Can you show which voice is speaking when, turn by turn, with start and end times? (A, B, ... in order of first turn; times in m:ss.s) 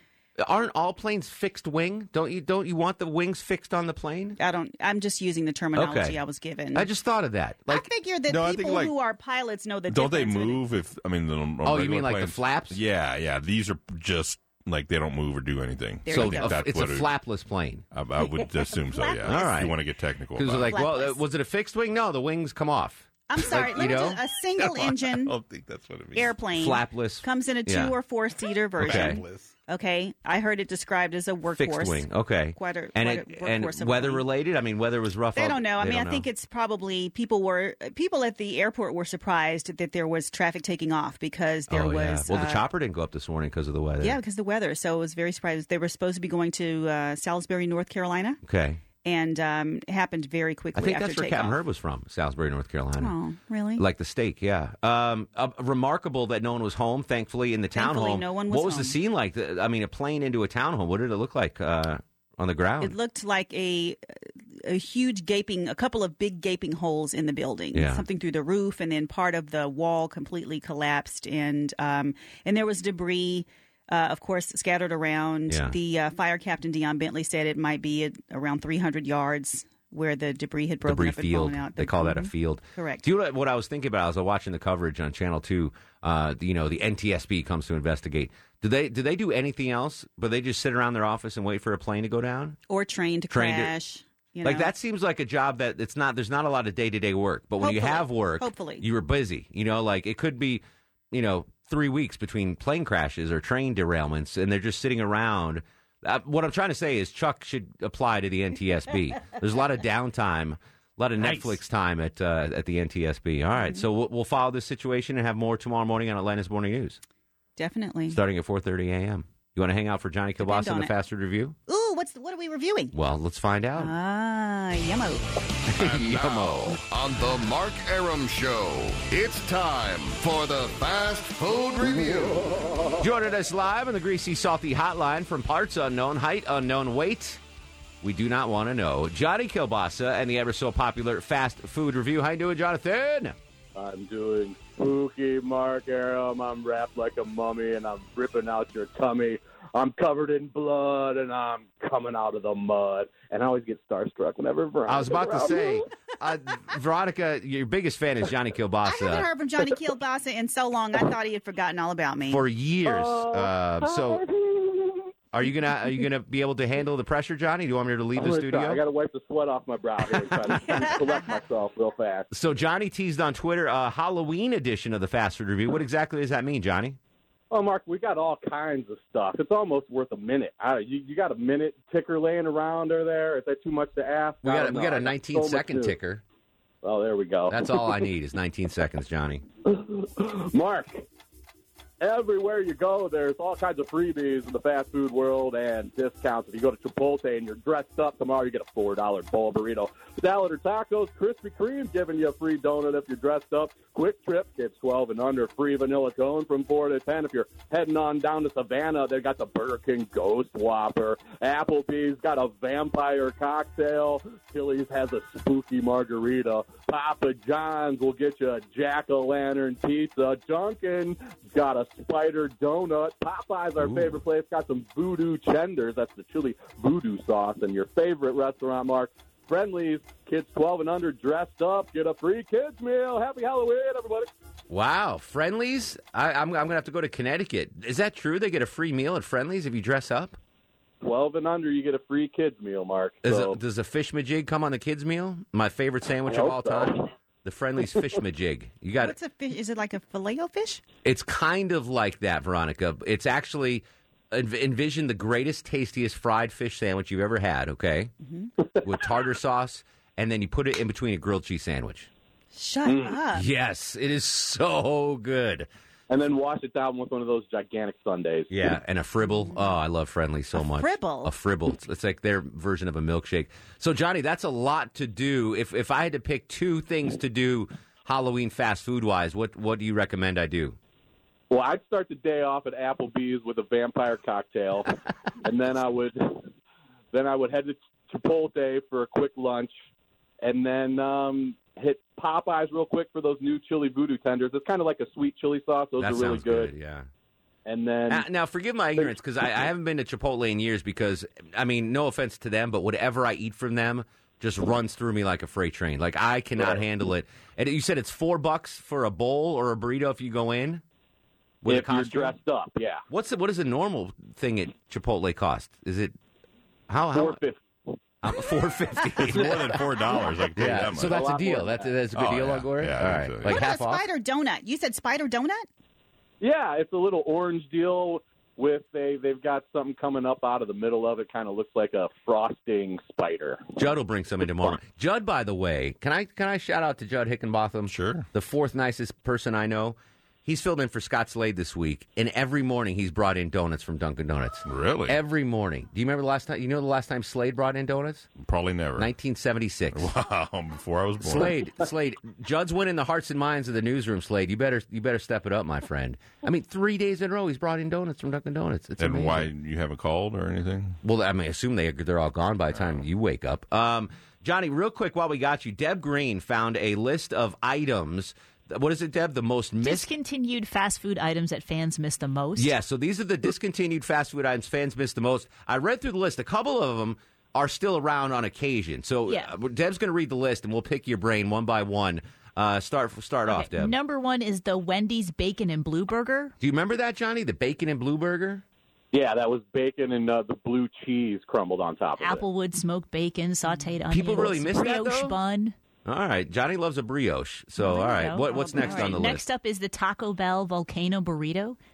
0:00.4-0:04.4 A
0:04.4-0:06.9 B
0:05.7-0:06.2 A
0:06.7-0:07.9 A
0:07.7-0:10.6 B
0:08.2-0:09.0 C
0:09.9-0:17.1 C
0:11.6-0:12.8 A
0:16.1-0:16.5 B
0:16.1-0:17.8 A
0:17.9-0:20.8 C
0:18.7-0:19.6 B
0:19.2-0:19.8 A
0:20.3-0:24.2 A
0:20.7-0:21.2 B
0:23.3-0:25.3 B
0:24.5-0:26.4 C
0:26.1-0:34.2 B
0:26.5-0:28.0 A
0:28.8-0:29.5 C
0:28.8-0:29.2 A
0:31.5-0:36.3 A
0:35.3-0:42.6 B
0:41.7-0:44.2 A
0:44.0-0:48.4 B
0:48.4-0:48.8 A
0:49.0-0:51.6 B
0:50.7-0:53.1 A
0:53.0-0:53.8 B
0:53.8-1:03.0 A
0:57.7-0:59.0 B
1:02.8-1:04.0 B
1:04.6-1:23.0 B
1:07.7-1:08.0 A
1:15.5-1:15.8 A
1:20.8-1:32.6 A
1:32.7-1:34.7 B
1:33.3-1:33.7 A
1:34.4-1:57.0 A
1:37.6-1:38.8 B
1:53.6-1:53.8 B
1:57.6-1:58.2 B
1:58.1-2:01.6 A
2:00.4-2:00.9 B
2:01.7-2:02.9 B
2:02.9-2:03.9 A
2:03.8-2:05.3 B
2:05.7-2:06.8 A
2:05.9-2:12.4 D
2:12.7-2:12.9 E
2:13.0-2:17.4 A
2:18.0-2:23.3 A
2:23.7-2:35.8 E
2:34.9-2:39.3 A
2:38.8-2:42.4 B
2:42.3-2:44.2 A
2:42.8-2:45.0 E
2:45.3-2:48.8 A
2:48.2-2:52.3 E
2:52.3-2:57.0 A
2:57.5-3:06.0 E
3:04.4-3:06.2 A
3:06.8-3:07.8 E
3:07.5-3:09.4 A
3:09.7-3:11.0 E
3:12.0-3:54.3 E
3:43.8-3:44.2 C
3:54.7-4:00.4 A
4:01.0-4:03.6 E
4:03.2-4:09.1 A
4:06.3-4:07.0 E
4:09.0-4:10.8 B
4:11.0-4:18.1 A
4:18.2-4:18.5 B
4:18.8-4:22.1 A
4:22.5-4:23.4 B
4:22.8-4:23.2 E
4:23.3-4:25.7 A
4:26.1-4:28.6 E
4:28.5-4:40.8 A
4:29.2-4:29.8 B
4:30.5-4:31.3 B
4:41.5-4:44.9 E
4:45.4-4:46.4 E
4:47.1-4:49.7 E
4:50.4-4:56.7 E
4:56.0-4:57.1 A
4:57.6-4:58.2 E
4:58.1-5:10.8 A
5:06.6-5:06.8 E
5:11.6-5:12.4 A
5:11.6-5:13.0 E
5:13.1-5:16.1 A
5:16.9-5:17.4 A
5:17.1-5:18.0 E
5:18.2-5:19.9 A
5:19.2-5:21.4 C
5:20.5-5:24.0 A
5:21.0-5:22.0 E
5:22.1-5:23.7 C
5:23.5-5:25.7 B
5:26.4-5:33.7 E
5:33.8-5:48.3 A
5:37.9-5:38.2 C
5:44.7-5:45.2 C
5:48.4-5:49.1 C
5:49.0-5:50.1 A
5:49.9-5:51.6 C
5:51.2-5:59.5 A
5:59.0-6:01.0 C
6:01.0-6:10.1 A
6:09.8-6:12.7 F
6:12.6-6:23.9 A
6:23.5-6:26.5 F
6:26.6-6:28.6 A
6:29.1-6:32.4 E
6:32.2-6:35.7 F
6:34.1-6:35.3 A
6:36.0-6:39.4 A
6:37.8-6:41.8 F
6:38.5-6:39.2 B